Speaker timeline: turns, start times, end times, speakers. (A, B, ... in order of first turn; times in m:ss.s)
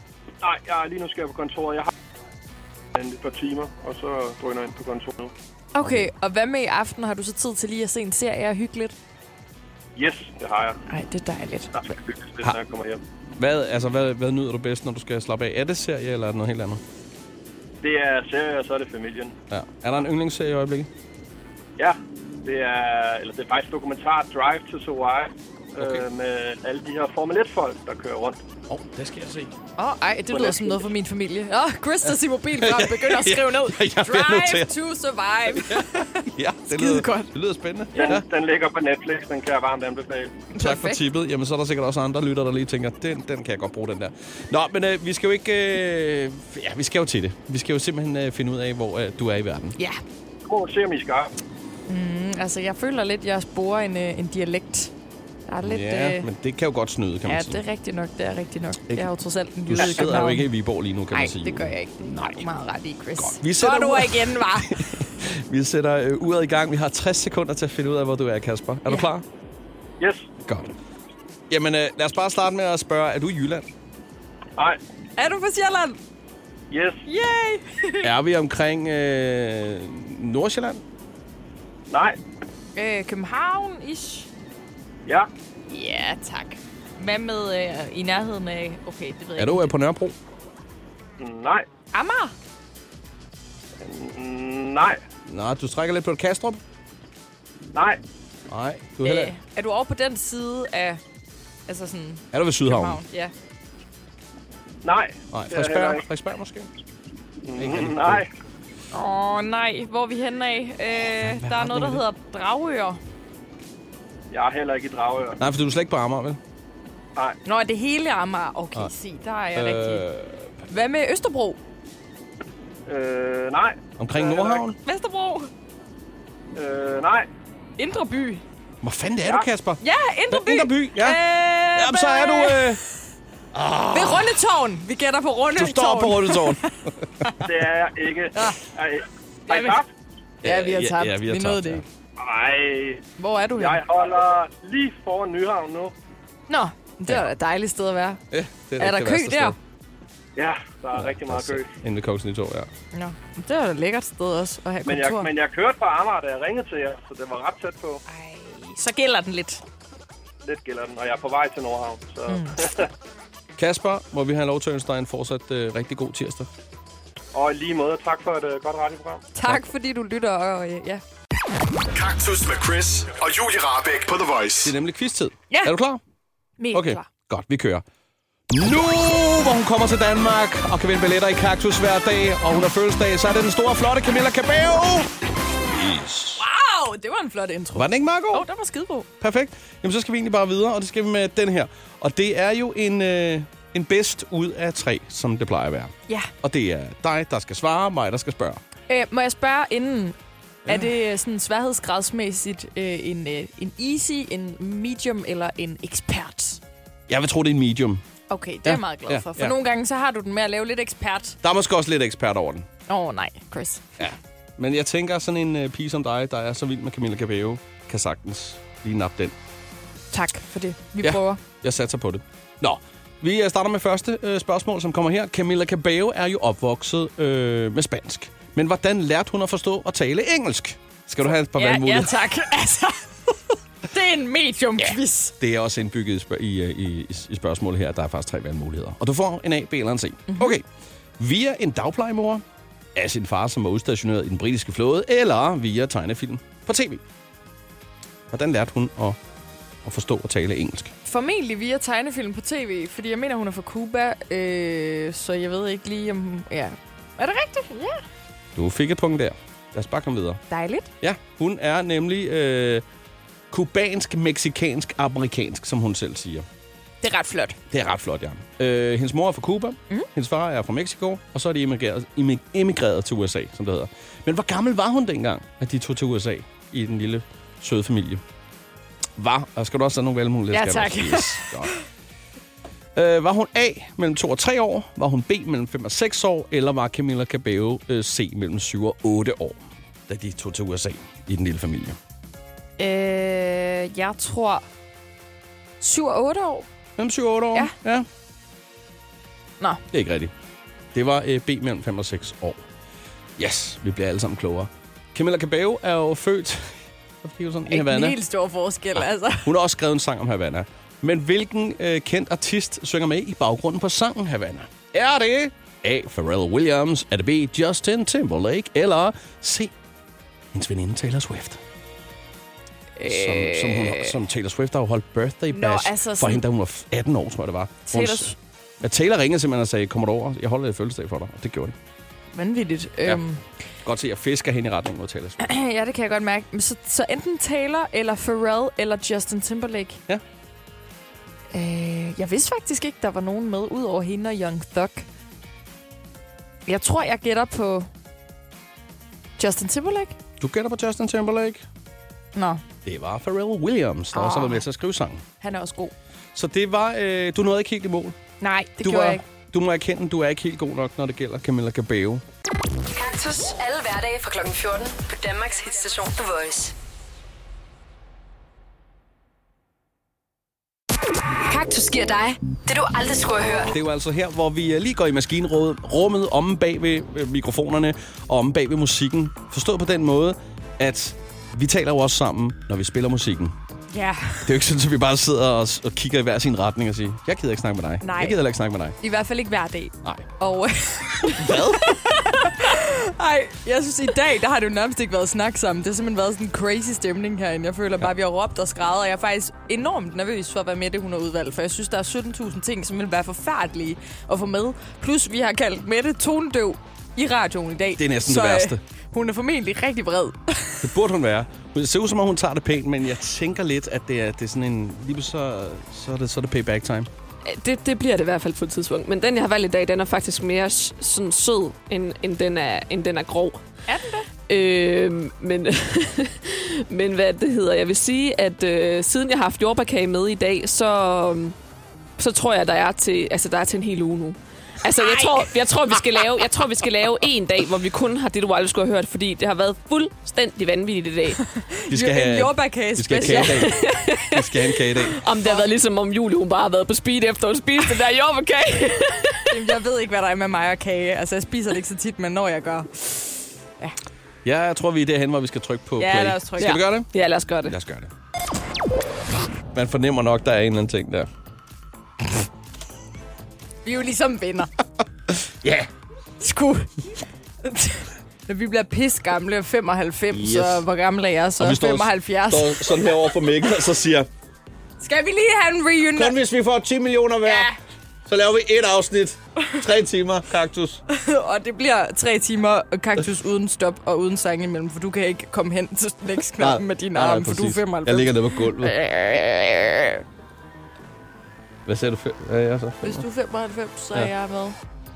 0:00.4-0:01.9 A
0:02.9-0:05.3 A
0:05.7-0:08.9 B
0:05.8-0:06.1 C
0:10.0-0:10.8 A
0:10.9-0:11.9 B
0:11.7-0:13.0 A
0:13.4-0:16.8 C
0:17.8-0:19.4 A
0:19.5-0:20.9 C
0:21.8-0:28.4 A
0:25.8-0:26.0 C
0:28.7-0:29.5 C
0:29.8-0:37.3 B
0:30.3-0:30.7 A
0:32.1-0:34.7 C
0:35.5-0:38.2 C
0:37.9-0:40.4 A
0:40.5-0:41.0 B
0:40.6-0:49.8 C
0:50.4-0:51.3 A
0:51.9-0:54.9 B
0:55.5-0:56.3 B
0:55.6-0:57.6 C
0:57.2-1:00.5 B
0:59.7-1:02.4 C
1:01.1-1:05.1 B
1:03.2-1:09.2 C
1:10.0-1:10.3 A
1:10.4-1:10.7 C
1:11.5-1:13.6 C
1:15.2-1:16.0 B
1:16.7-1:17.0 A
1:17.0-1:18.1 B
1:18.0-1:20.8 C
1:21.9-1:22.2 A
1:22.8-1:24.3 B
1:25.7-1:29.7 B
1:29.4-1:30.1 C
1:31.2-1:31.6 A
1:31.9-1:32.3 B
1:33.8-1:35.0 A
1:35.3-1:36.6 C
1:37.7-1:38.0 A
1:38.5-1:39.3 C
1:39.0-1:41.0 B
1:41.7-1:43.3 B
1:42.3-1:43.0 C
1:44.8-1:46.0 A
1:45.3-1:46.7 C
1:47.4-1:48.3 A
1:47.6-1:48.2 C
1:48.9-1:53.0 B
1:51.2-1:52.0 C
1:54.3-1:55.4 A
1:55.4-1:56.4 C
1:57.4-2:00.0 B
1:59.5-2:00.5 C
2:00.7-2:01.6 B
2:02.9-2:04.6 A
2:04.0-2:04.8 C
2:04.7-2:05.5 B
2:06.5-2:07.3 A
2:07.8-2:08.4 B
2:08.8-2:11.2 C
2:09.8-2:12.8 B
2:11.7-2:12.8 C
2:13.5-2:14.4 C
2:13.9-2:16.7 B
2:15.6-2:16.6 C
2:17.4-2:19.9 A
2:19.5-2:19.8 B
2:20.4-2:21.8 C
2:20.4-2:21.8 B
2:22.2-2:23.0 A
2:23.2-2:23.8 B
2:23.6-2:25.9 A
2:26.5-2:28.2 B
2:28.3-2:29.6 C
2:28.8-2:29.6 B
2:30.4-2:31.7 A
2:30.9-2:32.7 C
2:32.9-2:35.3 B
2:34.8-2:38.0 A
2:38.1-2:39.6 B
2:40.4-2:42.9 A
2:42.3-2:42.6 B
2:43.6-2:46.5 C
2:47.3-2:49.2 A
2:49.3-2:51.0 B
2:51.9-2:54.7 D
2:54.6-2:56.0 C
2:55.5-2:55.8 B
2:56.6-2:57.1 B
2:56.7-2:57.8 C
2:58.5-3:05.1 C
3:05.7-3:06.4 C
3:06.4-3:09.1 B
3:07.7-3:08.4 C
3:09.2-3:18.6 C
3:18.9-3:26.6 B
3:20.6-3:20.9 C
3:27.1-3:28.0 C
3:28.3-3:31.4 B
3:28.6-3:29.5 C
3:31.4-3:32.7 C
3:32.9-3:33.8 B
3:34.0-3:39.3 C
3:40.1-3:41.4 B
3:41.0-3:52.2 C
3:51.5-3:53.3 B
3:53.9-3:55.3 B
3:55.4-4:00.6 C
4:00.3-4:00.6 B
4:01.2-4:02.4 C
4:02.9-4:07.0 C
4:08.3-4:09.2 C
4:09.8-4:10.9 C
4:11.0-4:18.0 B
4:18.6-4:20.4 C
4:20.5-4:20.9 B
4:21.0-4:22.8 C
4:23.5-4:26.4 C
4:27.0-4:27.6 B
4:27.7-4:38.2 C
4:39.2-4:41.7 C
4:40.5-4:41.8 B
4:42.9-4:52.0 C
4:52.8-4:54.7 B
4:55.8-4:56.7 B
4:57.0-4:58.0 C
4:59.9-5:00.3 C
5:00.9-5:02.6 C
5:03.4-5:08.2 C
5:07.7-5:09.5 B
5:09.0-5:19.7 C
5:20.5-5:21.6 C
5:23.0-5:23.9 B
5:23.0-5:31.8 C
5:25.5-5:26.4 B
5:27.9-5:28.4 B
5:32.3-5:33.4 B
5:33.8-5:35.4 C
5:35.4-5:40.0 B
5:41.5-5:45.1 B
5:46.6-5:47.9 B
5:49.4-5:50.2 B
5:50.4-5:51.6 C
5:52.3-5:52.6 B
5:52.8-5:55.2 C
5:54.1-5:54.6 B
5:55.4-5:55.9 B
5:56.3-5:58.2 C
5:58.4-5:59.2 B
5:58.8-6:02.2 C
6:02.9-6:06.7 E
6:11.4-6:13.7 E
6:13.7-6:23.5 C
6:23.9-6:24.5 B
6:24.4-6:29.0 C
6:28.0-6:28.4 B
6:29.0-6:50.9 B
6:31.3-6:31.9 C
6:48.0-6:48.8 C
6:50.8-6:57.1 C
6:57.4-7:03.6 F
7:03.9-7:04.3 B
7:04.5-7:11.5 F
7:12.2-7:21.4 F
7:15.0-7:16.6 B
7:21.4-7:23.8 B
7:21.9-7:23.8 C
7:23.6-7:24.2 F
7:24.3-7:25.1 C
7:25.1-7:29.5 F
7:29.5-7:33.3 B
7:34.4-7:37.1 C
7:36.0-7:36.8 B
7:36.6-7:37.7 F
7:37.6-7:38.1 C
7:39.7-7:41.3 C
7:43.8-7:44.7 B
7:45.5-7:45.9 C
7:46.4-7:46.9 B
7:47.6-7:53.1 B
7:50.3-7:50.8 C
7:51.6-7:54.3 C
7:55.0-7:56.4 B
7:56.1-7:57.7 C
7:57.4-7:57.8 B
7:58.3-8:01.0 C
8:01.1-8:10.2 B
8:06.6-8:09.0 C
8:11.8-8:13.2 C
8:13.0-8:14.8 B